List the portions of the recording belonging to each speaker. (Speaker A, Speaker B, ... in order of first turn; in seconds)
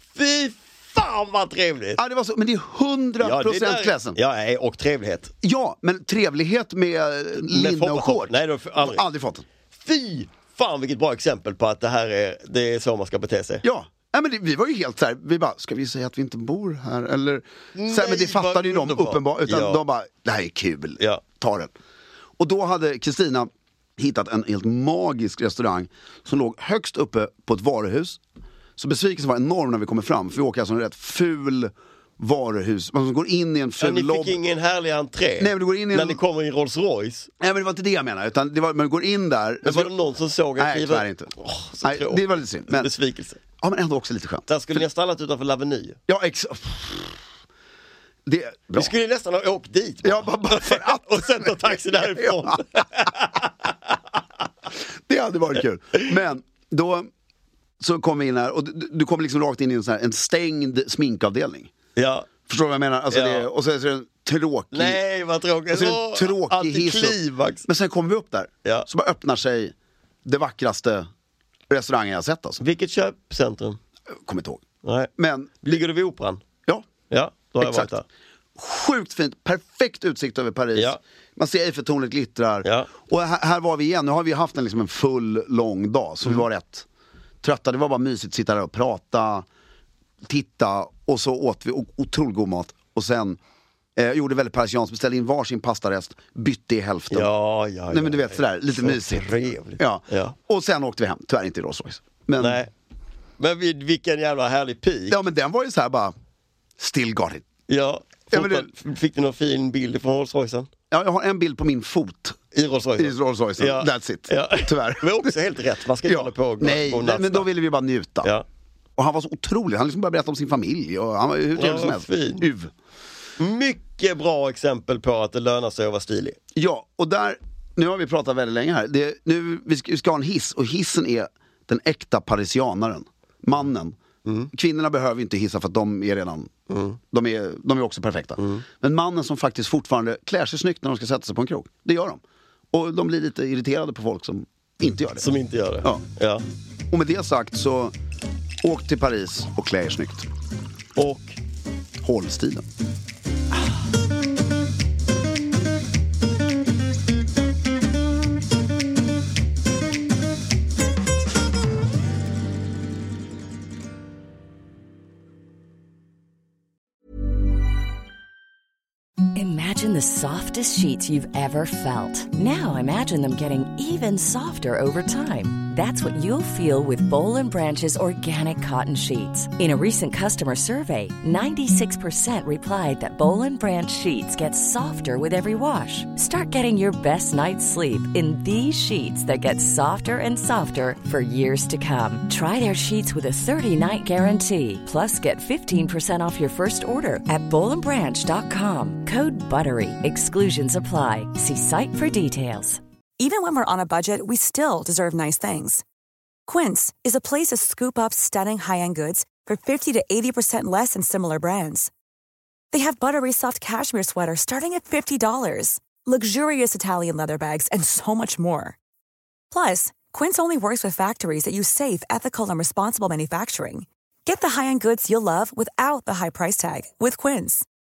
Speaker A: 0.1-2.0, 3.2-5.3, 7.4-9.0, 9.8-13.6, 17.8-19.8, 33.8-37.3, 39.6-43.4, 44.5-46.0, 48.7-53.7, 62.0-62.3, 63.1-63.5, 64.7-67.7, 72.6-73.8, 74.8-75.1, 75.6-76.4, 77.1-78.0, 82.6-82.9, 97.1-100.3, 102.4-102.7, 103.4-105.2, 107.7-110.7, 112.5-117.5, 121.6-122.5, 123.4-126.4, 136.7-137.0, 138.4-138.6, 145.2-146.4, 150.9-151.4
Speaker B: 2.0-4.2, 5.4-9.4, 13.6-21.7, 22.4-28.2, 28.8-34.4, 35.4-36.2, 37.4-39.9, 40.6-42.9, 43.6-44.8, 46.1-47.2, 48.2-48.9, 50.0-53.0, 55.1-57.1, 57.8-61.7, 62.5-65.0, 65.7-69.7, 70.2-71.1, 71.7-72.6, 74.2-74.6, 75.2-75.6, 77.6-77.9, 78.5-86.8, 87.4-89.5, 90.2-93.4, 94.0-97.3, 97.9-102.6, 105.1-106.1, 106.8-107.5, 108.3-108.7, 110.9-112.4, 113.0-115.3, 116.0-118.3, 119.0-122.7, 126.5-134.0, 134.5-136.5, 137.1-142.2, 142.7-145.3, 146.9-147.9, 148.6-150.3, 152.0-152.6
Speaker C: 169.3-202.8
Speaker D: 203.2-205.8, 206.5-211.9, 212.7-218.8, 219.5-227.7